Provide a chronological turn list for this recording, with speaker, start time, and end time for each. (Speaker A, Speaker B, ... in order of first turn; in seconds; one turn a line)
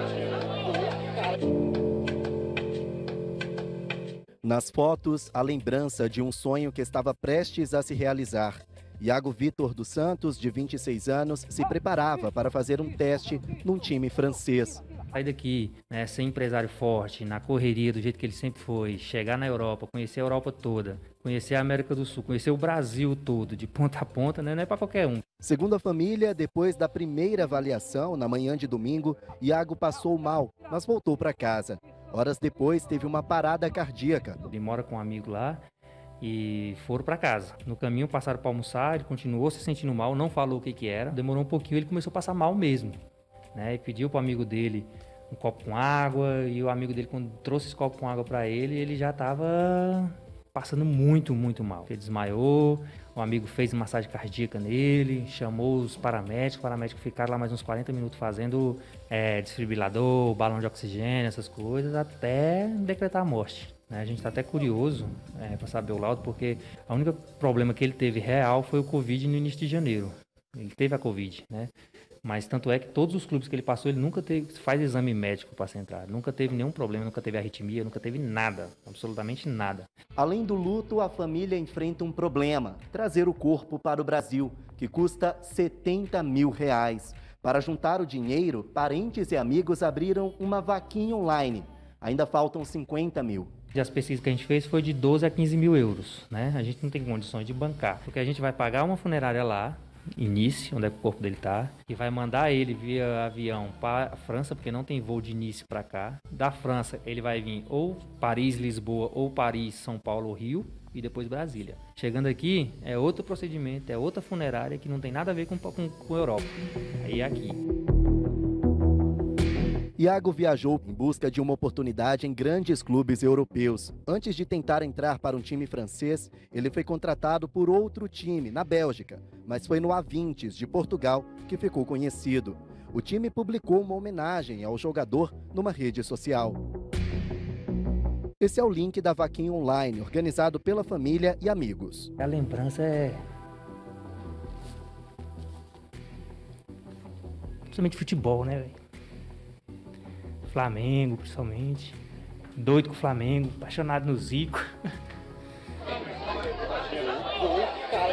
Speaker A: 4.4-14.8
Speaker B: 15.1-25.2
Speaker A: 25.4-34.5
Speaker B: 34.4-35.6
Speaker B: 36.2-43.0
Speaker B: 43.5-71.7
Speaker B: 72.2-79.9
Speaker A: 80.2-93.5
Speaker B: 93.7-117.6
Speaker A: 120.0-136.6
Speaker A: 138.4-142.1
Speaker B: 142.2-143.2
Speaker B: 147.7-148.8
Speaker B: 150.5-152.0
Speaker B: 152.6-154.7